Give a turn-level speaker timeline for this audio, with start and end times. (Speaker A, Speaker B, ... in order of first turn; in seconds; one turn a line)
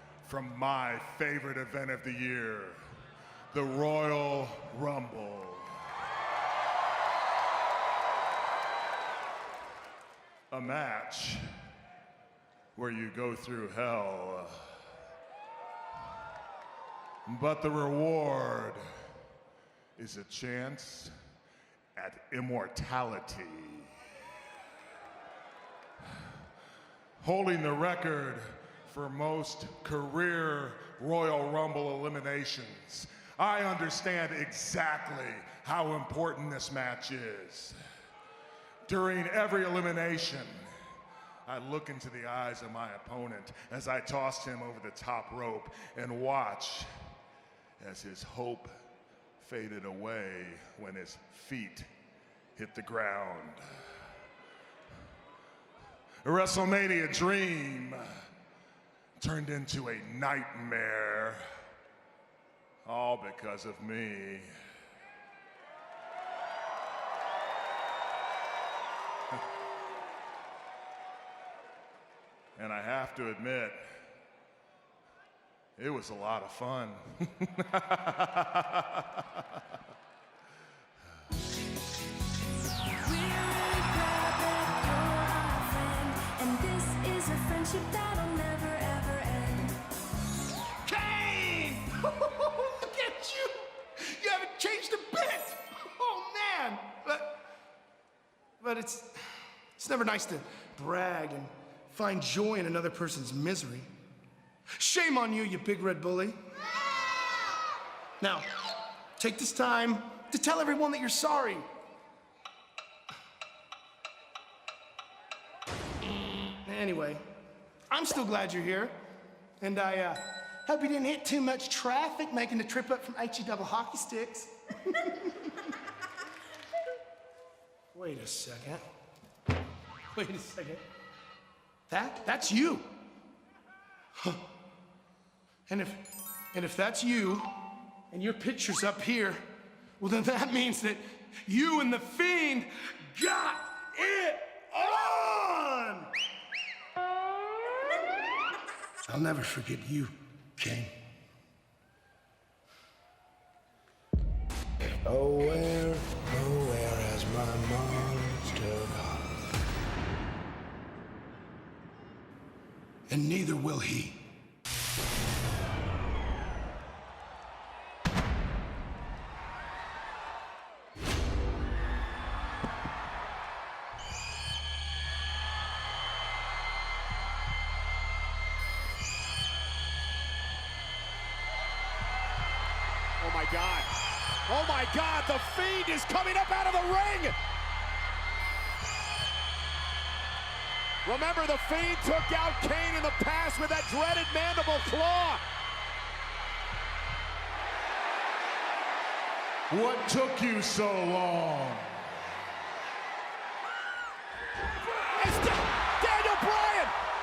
Speaker A: 0.2-2.8
Speaker A: 3.5-5.7
Speaker A: 10.5-11.4
Speaker A: 12.8-14.6
Speaker A: 17.2-18.8
Speaker A: 20.0-21.1
Speaker A: 21.9-23.9
Speaker A: 27.2-37.8
Speaker A: 38.9-40.6
Speaker A: 41.5-46.9
Speaker A: 47.8-48.7
Speaker A: 49.4-51.9
Speaker A: 52.5-53.6
Speaker A: 56.2-58.0
Speaker A: 59.2-61.4
Speaker A: 62.8-64.5
Speaker A: 72.5-73.8
Speaker A: 75.8-79.0
Speaker B: 82.9-89.8
Speaker C: 90.8-97.4
Speaker C: 98.6-99.2
Speaker C: 99.8-103.9
Speaker C: 104.8-106.4
Speaker C: 108.2-108.5
Speaker C: 109.2-111.7
Speaker C: 116.6-117.2
Speaker C: 117.9-118.9
Speaker C: 119.6-125.5
Speaker C: 127.9-128.8
Speaker C: 130.1-130.8
Speaker C: 131.9-132.9
Speaker C: 134.2-134.4
Speaker C: 135.7-137.5
Speaker C: 138.1-139.5
Speaker C: 140.0-146.1
Speaker C: 149.1-150.9
Speaker D: 155.0-159.3
Speaker C: 163.1-164.2
Speaker E: 183.2-183.9
Speaker E: 184.5-187.3
Speaker E: 191.0-195.4
Speaker A: 199.7-201.9
Speaker E: 205.2-206.9